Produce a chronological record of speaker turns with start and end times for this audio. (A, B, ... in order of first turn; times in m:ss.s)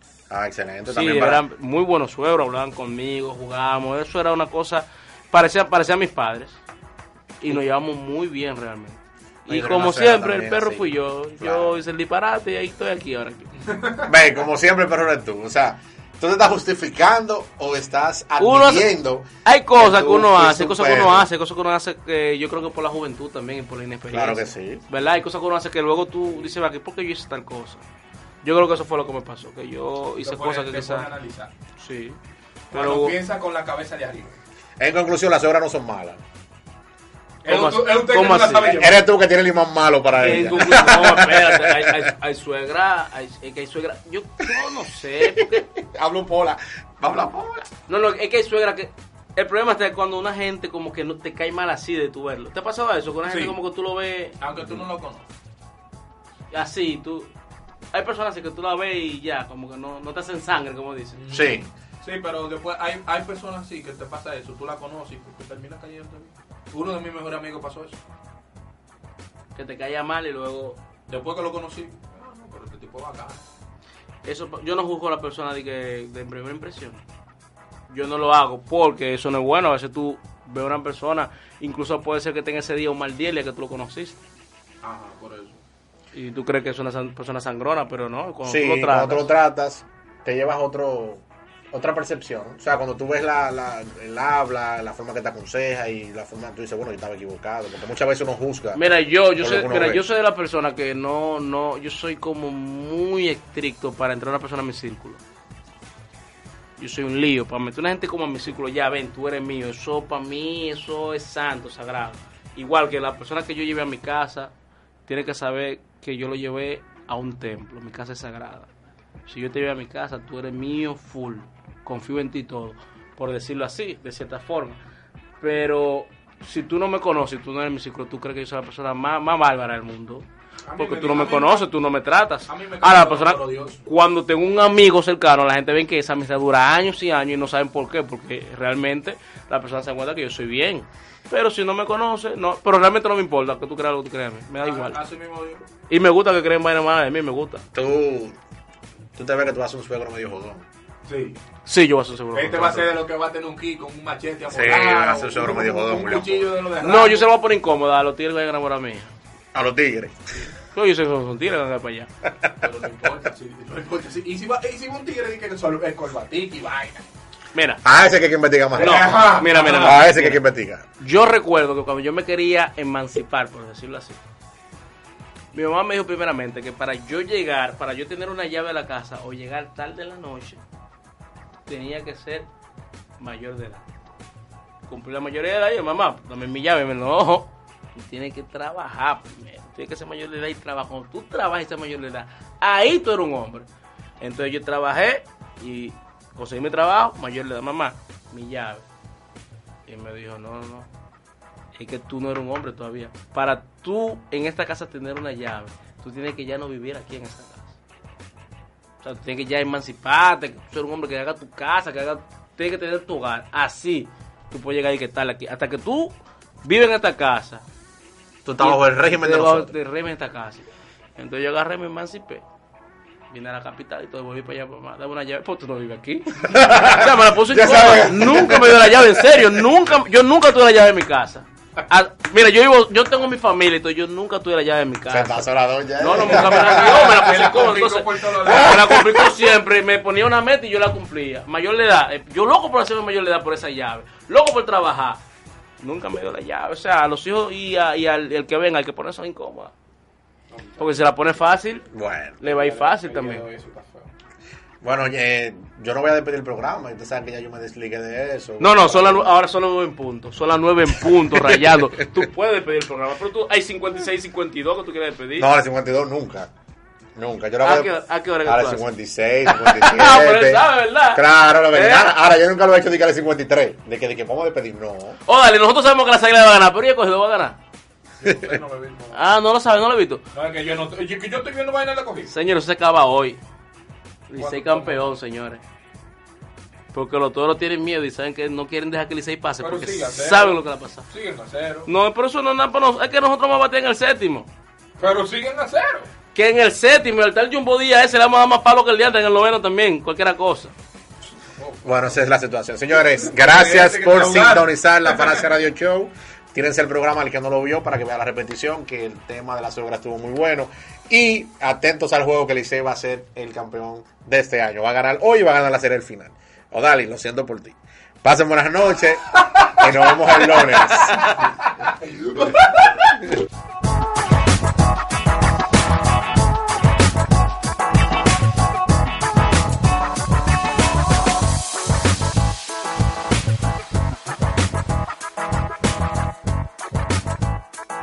0:00.3-0:01.4 A
0:00.9-0:06.6 B
0:07.4-0:13.5 B
0:09.5-0:11.8 A
0:13.7-0:14.1 C
0:14.1-0:21.3 A
0:18.4-0:18.9 B
0:19.4-0:27.8 B
0:24.1-0:24.8 A
0:28.4-0:31.1 B
0:30.2-0:31.5 C
0:31.8-0:32.2 B
0:32.7-0:33.2 B
0:32.7-0:34.4 C
0:34.8-0:36.2 A
0:37.4-0:39.1 C
0:37.5-0:38.8 B
0:38.6-0:42.1 A
0:40.2-0:45.6 B
0:45.2-0:47.7 A
0:47.9-0:54.4 B
0:53.2-0:53.6 C
0:54.4-0:55.2 C
0:56.5-0:57.3 B
0:57.9-1:01.2 B
1:01.2-1:08.0 C
1:01.3-1:01.7 A
1:09.6-1:10.8 B
1:11.1-1:13.4 C
1:14.2-1:17.0 B
1:17.9-1:24.2 B
1:24.8-1:25.6 C
1:26.1-1:29.3 B
1:28.4-1:38.8 A
1:38.8-1:45.2 B
1:39.4-1:40.0 A
1:46.8-1:54.5 B
1:55.1-1:58.7 B
1:59.3-2:04.8 B
2:05.4-2:10.3 B
2:10.7-2:11.7 C
2:10.8-2:25.0 B
2:12.5-2:13.8 C
2:24.6-2:25.6 C
2:25.9-2:27.7 B
2:27.7-2:28.4 A
2:29.2-2:30.6 A
2:31.1-2:31.4 C
2:31.6-2:32.9 B
2:32.3-2:37.3 C
2:34.5-2:36.5 A
2:36.8-2:39.1 B
2:39.5-2:40.2 A
2:40.7-2:42.1 B
2:42.6-2:47.0 C
2:47.5-2:47.8 B
2:47.8-2:50.8 A
2:48.7-2:50.0 C
2:48.8-2:50.4 B
2:51.0-2:54.2 B
2:55.5-3:00.6 B
3:01.7-3:02.5 B
3:03.2-3:04.0 B
3:04.9-3:13.7 B
3:14.2-3:18.8 B
3:19.9-3:20.9 B
3:21.8-3:27.8 B
3:29.0-3:37.6 B
3:38.4-3:39.7 A
3:38.6-3:42.4 B
3:43.3-4:05.2 B
3:46.4-3:49.5 A
3:55.1-3:57.1 A
3:56.1-3:59.0 C
3:58.4-3:59.3 A
4:05.8-4:09.7 B
4:10.5-4:11.0 C
4:10.8-4:11.9 B
4:11.9-4:12.4 A
4:12.4-4:13.4 B
4:12.4-4:14.1 C
4:14.8-4:19.3 A
4:18.6-4:25.5 B
4:21.2-4:21.8 A
4:25.4-4:26.5 A
4:27.2-4:35.2 A
4:27.6-4:28.9 B
4:29.5-4:32.1 B
4:35.3-4:37.6 B
4:38.2-4:39.2 C
4:39.1-4:40.2 B
4:40.3-4:42.3 C
4:42.3-4:43.4 B
4:44.3-4:45.6 B
4:44.4-4:45.2 C
4:46.9-4:51.0 B
4:49.6-4:51.9 C
4:51.9-4:54.5 B
4:55.0-4:56.1 C
4:56.4-5:00.7 B
5:01.4-5:02.2 C
5:01.8-5:21.3 A
5:03.0-5:05.5 C
5:20.6-5:23.1 C